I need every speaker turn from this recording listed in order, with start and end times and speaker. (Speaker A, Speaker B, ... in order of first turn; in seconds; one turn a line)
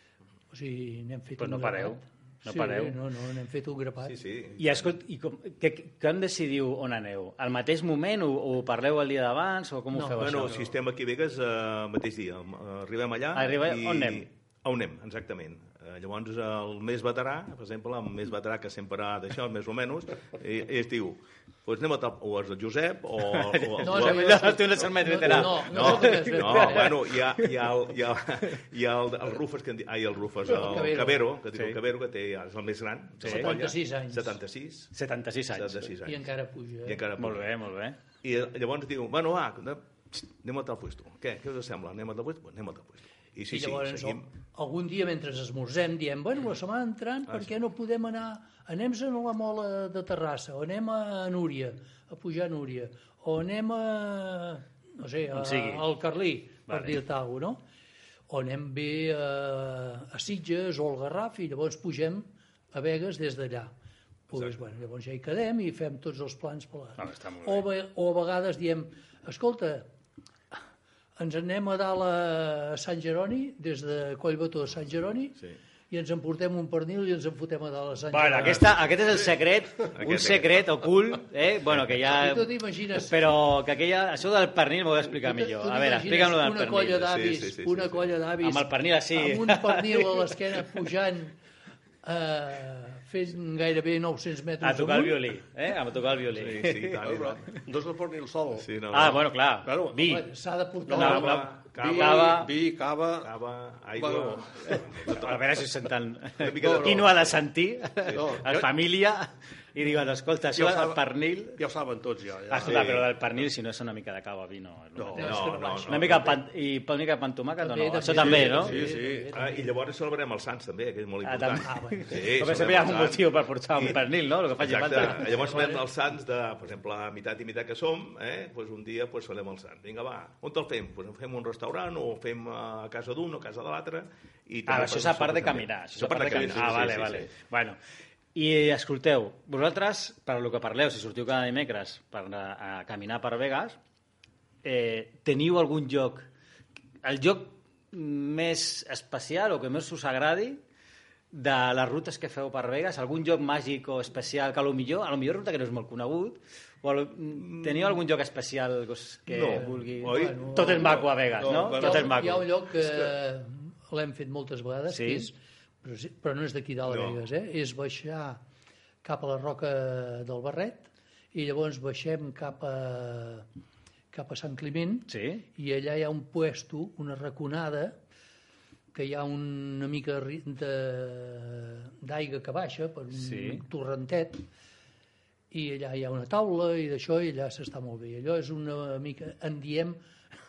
Speaker A: 0.5-4.2
Speaker B: 1.4-3.0
Speaker C: 4.0-5.0
Speaker B: 4.6-10.7
Speaker A: 9.9-10.3
Speaker C: 10.2-24.4
Speaker B: 13.3-14.3
Speaker B: 23.2-27.4
Speaker A: 23.8-26.9
Speaker C: 25.3-34.9
Speaker A: 30.5-31.3
Speaker B: 33.2-33.5
Speaker A: 33.2-34.4
Speaker B: 34.9-35.9
Speaker C: 35.5-36.2
Speaker A: 36.0-37.0
Speaker C: 36.8-37.5
Speaker B: 37.2-38.0
Speaker C: 38.2-44.3
Speaker A: 43.5-57.6
Speaker B: 55.3-55.9
Speaker B: 56.7-57.0
Speaker A: 58.3-63.7
Speaker A: 64.3-69.9
Speaker B: 67.0-67.7
Speaker A: 71.2-78.9
Speaker B: 78.1-87.1
Speaker C: 80.0-80.9
Speaker A: 82.0-83.2
Speaker A: 85.1-91.4
Speaker C: 87.0-88.2
Speaker B: 88.4-90.3
Speaker A: 92.0-95.4
Speaker B: 94.6-97.0
Speaker C: 96.3-97.5
Speaker D: 96.5-98.7
Speaker C: 98.6-99.2
Speaker B: 98.9-100.3
Speaker D: 99.6-100.0
Speaker A: 100.0-101.2
Speaker D: 100.9-103.3
Speaker B: 100.9-102.5
Speaker C: 101.0-102.5
Speaker C: 103.2-105.7
Speaker D: 103.9-105.0
Speaker B: 105.1-111.6
Speaker C: 106.4-107.4
Speaker D: 106.5-107.1
Speaker C: 108.1-108.3
Speaker D: 108.1-108.7
Speaker D: 110.5-113.1
Speaker B: 112.5-118.9
Speaker C: 112.6-113.1
Speaker D: 115.0-115.3
Speaker A: 115.1-116.3
Speaker C: 115.2-116.4
Speaker A: 117.6-119.8
Speaker D: 118.1-119.3
Speaker C: 119.3-124.0
Speaker B: 121.2-125.4
Speaker A: 121.6-122.2
Speaker C: 124.5-137.3
Speaker A: 124.9-125.9
Speaker B: 134.7-137.8
Speaker D: 136.3-137.2
Speaker B: 138.3-143.8
Speaker B: 144.6-146.3
Speaker B: 147.0-150.6
Speaker B: 151.3-162.5
Speaker C: 157.3-158.0
Speaker C: 159.3-161.1
Speaker A: 159.3-168.4
Speaker D: 160.8-162.9
Speaker B: 164.9-165.3
Speaker C: 166.9-167.2
Speaker A: 169.0-173.5
Speaker A: 174.1-178.0
Speaker B: 175.1-175.4
Speaker A: 178.9-184.4
Speaker B: 183.1-183.6
Speaker A: 185.5-190.0